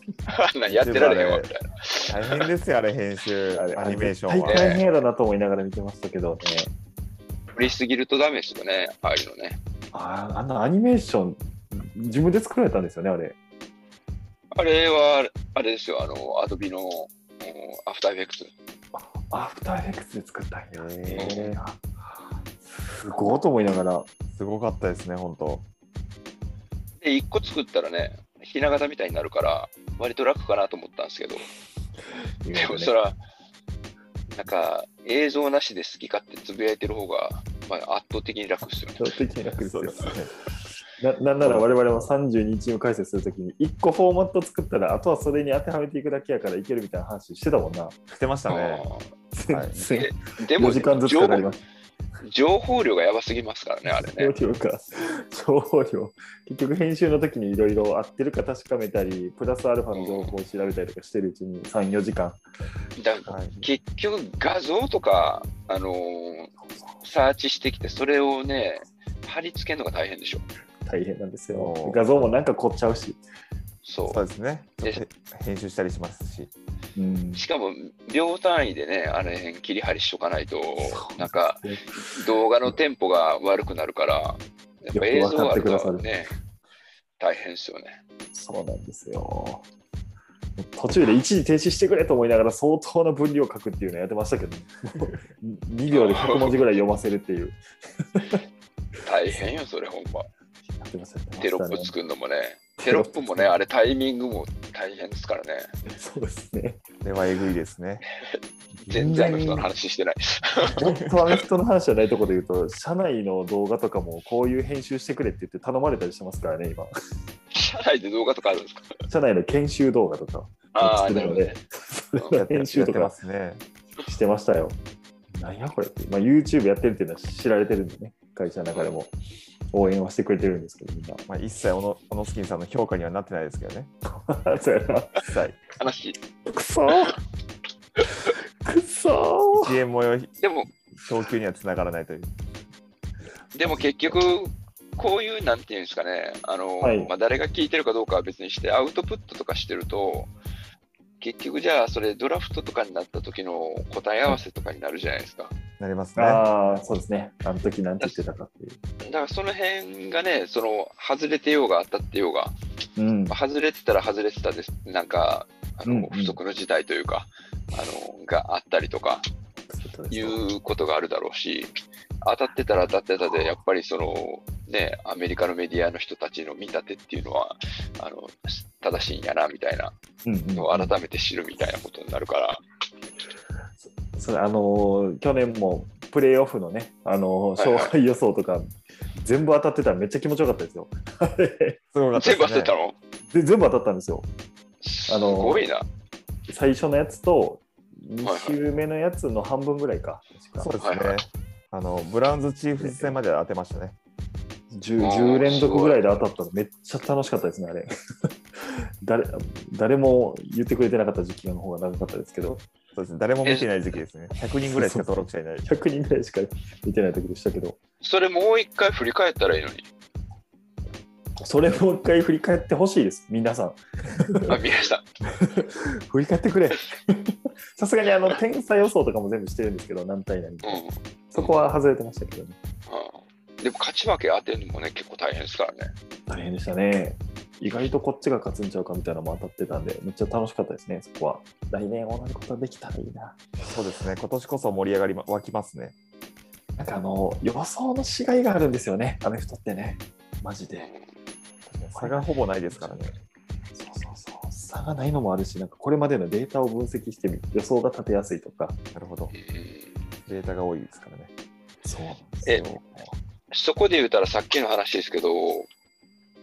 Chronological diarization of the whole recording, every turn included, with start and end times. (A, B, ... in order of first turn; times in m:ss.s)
0:00.3-0:02.5 A
0:00.7-0:01.5 B
0:02.1-0:04.8 B
0:03.6-0:06.7 C
0:04.5-0:04.8 A
0:07.5-0:09.6 A
0:09.9-0:13.4 C
0:14.5-0:18.5 A
0:18.9-0:21.8 C
0:20.7-0:21.6 B
0:21.2-0:21.4 A
0:23.0-0:24.1 C
0:24.3-0:25.7 B
0:27.0-0:31.4 A
0:32.4-0:33.0 C
0:32.5-0:33.2 A
0:34.3-0:39.0 A
0:39.0-0:48.0 C
0:39.6-0:40.3 B
0:41.4-0:41.8 B
0:48.1-0:48.9 B
0:48.5-0:49.1 A
0:49.3-0:51.6 C
0:49.5-0:49.8 B
0:49.9-0:51.5 A
0:52.2-0:54.3 A
0:53.9-1:02.4 C
0:59.9-1:00.3 A
1:03.0-1:10.4 A
1:03.3-1:03.6 B
1:06.6-1:07.0 C
1:10.9-1:13.2 C
1:11.5-1:12.1 B
1:13.8-1:14.2 A
1:14.1-1:16.5 B
1:17.0-1:17.4 C
1:17.4-1:26.3 A
1:20.8-1:22.8 C
1:24.9-1:26.3 C
1:27.2-1:28.0 A
1:28.3-1:29.6 C
1:30.6-1:38.4 C
1:35.9-1:36.6 A
1:39.1-1:40.3 A
1:40.8-1:42.0 C
1:41.4-1:45.6 A
1:42.8-1:43.6 C
1:45.9-1:46.8 C
1:47.0-1:48.0 B
1:48.2-1:50.9 A
1:48.8-1:49.7 C
1:50.6-1:56.9 C
1:57.5-1:58.9 A
1:59.1-2:03.1 C
2:00.7-2:01.6 A
2:02.3-2:03.6 B
2:04.0-2:04.8 C
2:05.4-2:09.2 C
2:08.7-2:09.0 A
2:09.7-2:11.2 C
2:11.3-2:13.9 B
2:14.3-2:15.3 C
2:15.3-2:15.6 B
2:15.8-2:16.2 A
2:16.5-2:17.2 C
2:18.0-2:19.8 C
2:19.5-2:20.4 B
2:20.4-2:20.7 A
2:21.0-2:22.3 B
2:23.5-2:30.3 A
2:23.6-2:24.2 C
2:26.8-2:27.1 C
2:31.2-2:35.5 A
2:35.8-2:36.8 B
2:36.2-2:38.8 C
2:39.0-2:42.6 A
2:43.0-2:43.4 C
2:43.3-2:49.2 A
2:45.8-2:46.4 C
2:49.7-2:50.4 C
2:50.1-2:51.7 A
2:52.2-2:59.9 A
3:00.2-3:01.0 C
3:00.5-3:02.6 A
3:04.1-3:11.8 C
3:07.6-3:07.9 A
3:11.9-3:12.8 B
3:12.2-3:13.0 A
3:13.3-3:14.3 C
3:14.8-3:15.9 A
3:15.1-3:15.7 C
3:16.5-3:20.7 C
3:18.2-3:18.6 A
3:20.6-3:24.0 B
3:20.8-3:21.3 A
3:22.8-3:23.2 C
3:24.7-3:27.9 C
3:25.0-3:26.1 A
3:28.6-3:32.6 C
3:32.9-3:35.7 B
3:33.4-3:33.7 A
3:34.6-3:35.1 C
3:35.6-3:37.8 C
3:38.0-3:39.9 A
3:41.4-3:44.6 C
3:44.5-3:45.0 A
3:45.3-3:52.6 C
3:50.6-3:51.7 A
3:52.9-3:55.9 A
3:56.3-4:03.8 C
4:03.7-4:06.0 B
4:06.8-4:10.9 C
4:10.8-4:11.1 A
4:11.7-4:13.1 B
4:11.9-4:13.2 C
4:13.8-4:18.8 C
4:18.9-4:19.4 B
4:19.3-4:20.0 A
4:20.3-4:21.3 B
4:21.8-4:23.1 C
4:23.5-4:25.7 A